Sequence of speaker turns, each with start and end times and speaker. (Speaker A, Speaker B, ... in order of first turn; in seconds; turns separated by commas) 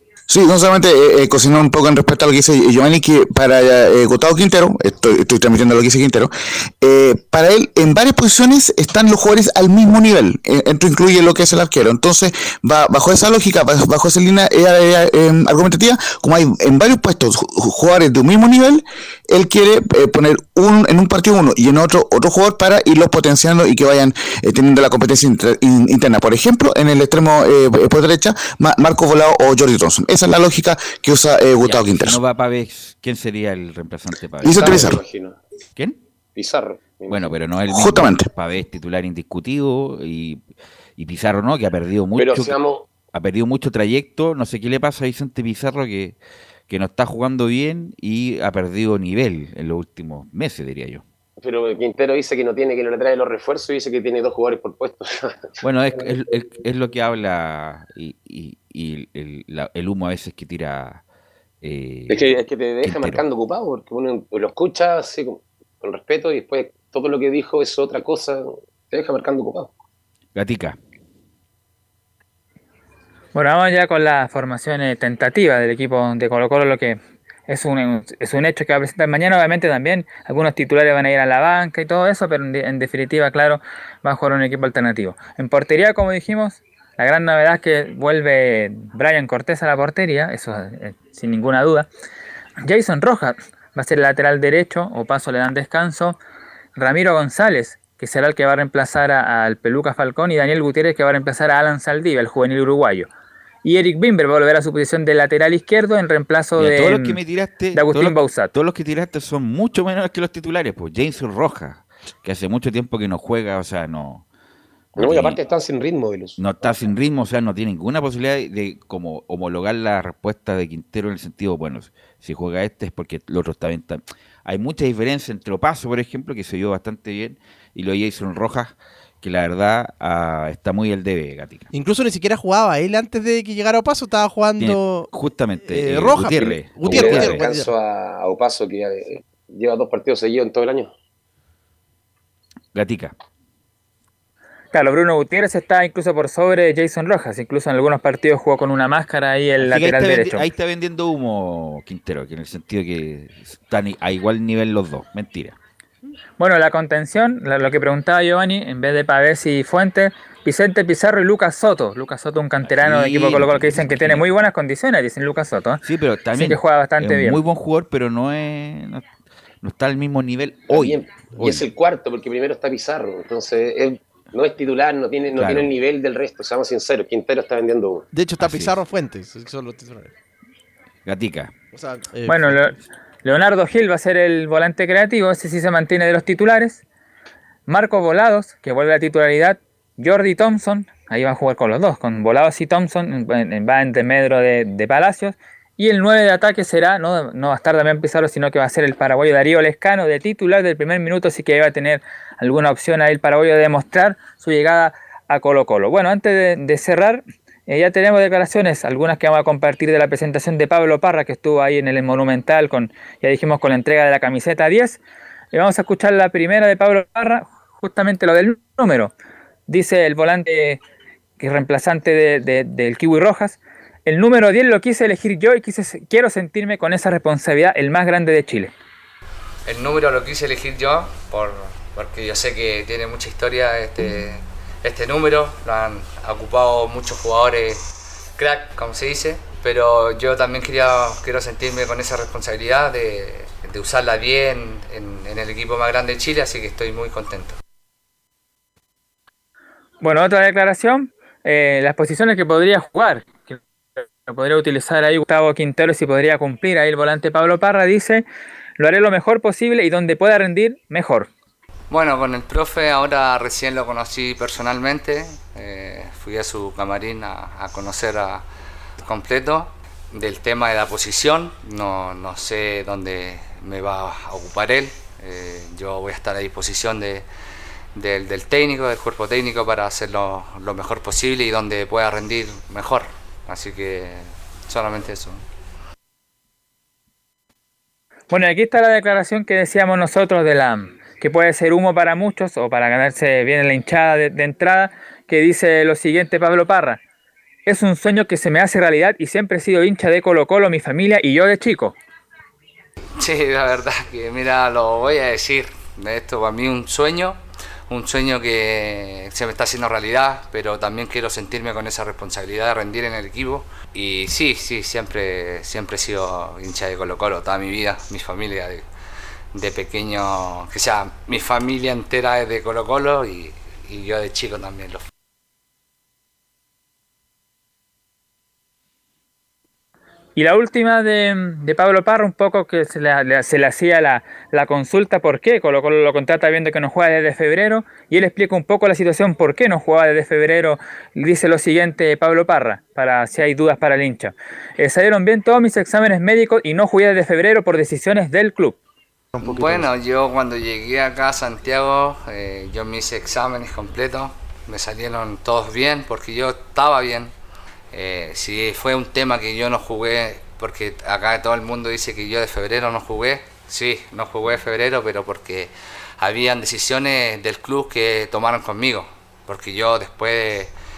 Speaker A: 0.3-32.2, Speaker B: 31.6-35.0, Speaker C: 34.4-35.4, Speaker A: 34.5-35.0, Speaker C: 36.3-37.3, Speaker B: 37.1-40.4, Speaker A: 37.7-38.3, Speaker B: 41.0-42.5, Speaker C: 42.2-42.9, Speaker B: 43.1-46.2, Speaker B: 46.7-51.0, Speaker C: 51.4-55.3, Speaker B: 55.6-61.0, Speaker B: 61.6-62.2, Speaker C: 62.1-69.7, Speaker B: 62.8-63.2, Speaker B: 70.3-70.8, Speaker D: 73.3-91.9, Speaker D: 92.6-96.2, Speaker D: 96.8-103.1, Speaker D: 103.6-107.2, Speaker B: 106.6-114.2, Speaker D: 107.7-108.5, Speaker B: 114.9-115.4, Speaker C: 115.0-116.7, Speaker B: 116.4-131.7, Speaker E: 131.7-135.1, Speaker B: 134.6-137.4, Speaker E: 135.7-137.7, Speaker C: 136.8-140.9, Speaker B: 142.7-143.1, Speaker D: 144.7-150.4, Speaker B: 149.6-155.6, Speaker D: 156.4-165.8, Speaker B: 162.6-164.3, Speaker B: 165.8-169.0, Speaker D: 166.3-167.4, Speaker B: 169.6-171.6, Speaker C: 170.7-178.0, Speaker B: 175.3-175.7, Speaker E: 178.1-180.1, Speaker B: 178.4-178.8, Speaker B: 181.0-181.5, Speaker E: 181.7-182.8, Speaker D: 182.3-186.8, Speaker D: 187.7-215.0, Speaker D: 215.5-219.1, Speaker D: 219.7-220.8, Speaker D: 221.4-228.7, Speaker F: 229.7-237.8, Speaker F: 238.4-247.6, Speaker D: 250.0-258.2, Speaker D: 258.8-261.3, Speaker F: 261.9-268.4, Speaker F: 269.0-277.3, Speaker F: 277.9-285.4, Speaker D: 288.3-297.0, Speaker D: 297.6-302.0, Speaker F: 303.2-318.9, Speaker F: 319.5-325.0, Speaker D: 330.4-348.8, Speaker E: 349.3-349.9, Speaker F: 349.4-357.3, Speaker F: 357.9-370.7